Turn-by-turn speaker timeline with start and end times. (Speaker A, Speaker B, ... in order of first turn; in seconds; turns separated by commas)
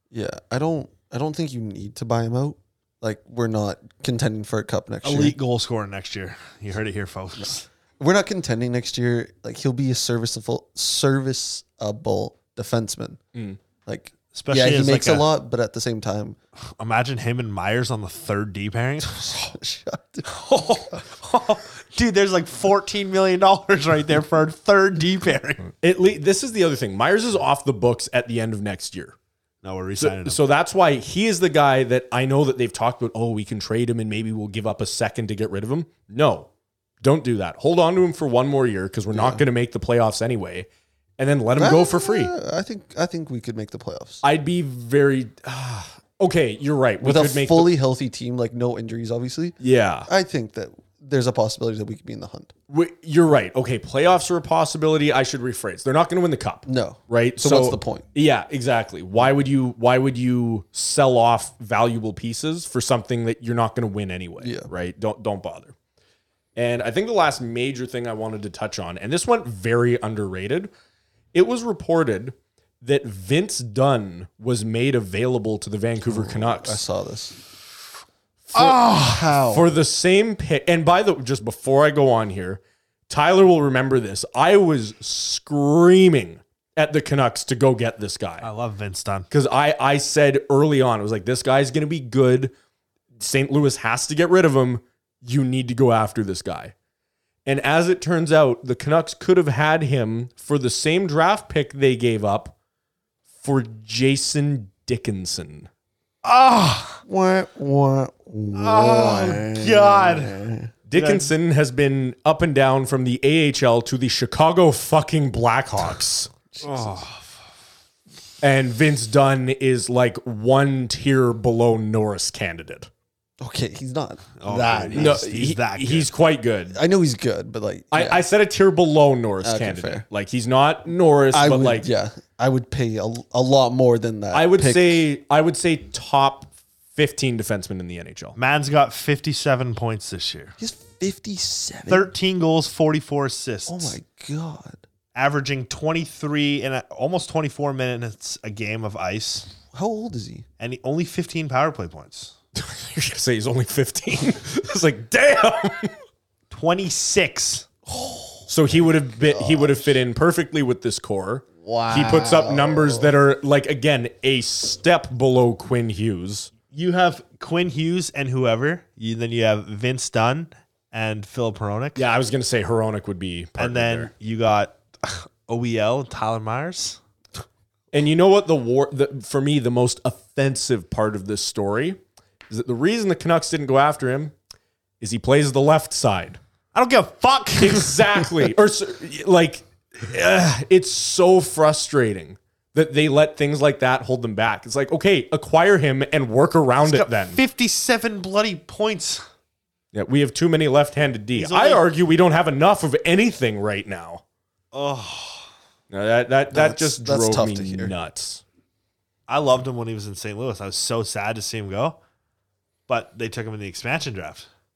Speaker A: 0.1-5.3, Speaker B: 5.0-7.7, Speaker A: 8.0-13.2, Speaker C: 13.3-13.6, Speaker A: 13.8-16.4, Speaker B: 14.3-15.3, Speaker B: 16.7-19.3, Speaker A: 19.1-20.3, Speaker B: 20.2-25.7, Speaker C: 25.8-29.1, Speaker B: 29.6-30.4, Speaker C: 30.0-36.5, Speaker C: 37.0-40.7, Speaker A: 39.1-39.4, Speaker C: 41.2-42.3, Speaker A: 41.5-44.2, Speaker C: 44.2-47.7, Speaker A: 47.0-52.5, Speaker C: 49.6-50.1, Speaker C: 52.7-65.7, Speaker A: 56.6-58.0, Speaker A: 64.4-64.7, Speaker C: 66.5-70.7, Speaker C: 71.3-76.8, Speaker A: 76.0-77.4, Speaker C: 78.5-88.5, Speaker A: 78.5-79.7, Speaker B: 88.4-89.3, Speaker C: 89.3-92.5, Speaker C: 93.2-96.7, Speaker C: 97.4-102.5, Speaker C: 103.4-105.7, Speaker B: 106.2-107.0, Speaker A: 106.9-110.7, Speaker B: 108.5-110.4, Speaker C: 110.9-116.3, Speaker B: 110.9-111.2, Speaker A: 116.5-117.0, Speaker B: 116.6-117.3, Speaker C: 118.4-122.9, Speaker A: 123.4-125.3, Speaker B: 124.4-126.1, Speaker C: 124.9-126.8, Speaker A: 126.7-128.2, Speaker C: 127.9-131.9, Speaker A: 129.4-130.0, Speaker A: 131.3-135.0, Speaker C: 134.3-138.4, Speaker B: 138.3-140.6, Speaker A: 140.6-142.1, Speaker B: 141.9-144.0, Speaker A: 143.7-144.8, Speaker B: 145.1-149.5, Speaker A: 149.7-150.4, Speaker B: 150.6-152.3, Speaker C: 152.6-155.9, Speaker B: 156.5-157.7, Speaker A: 157.9-158.5, Speaker C: 158.5-166.5, Speaker A: 159.2-159.9, Speaker A: 161.6-163.1, Speaker B: 166.7-172.0, Speaker C: 171.9-174.1, Speaker B: 173.6-177.0, Speaker C: 177.9-182.0, Speaker C: 182.5-184.3, Speaker C: 185.0-186.4, Speaker B: 186.7-188.0, Speaker C: 187.6-197.4, Speaker B: 196.8-199.2, Speaker C: 199.9-204.2, Speaker B: 201.3-201.9, Speaker B: 204.7-205.5, Speaker C: 205.9-208.4, Speaker A: 206.5-207.9, Speaker B: 209.3-212.0, Speaker B: 212.9-214.5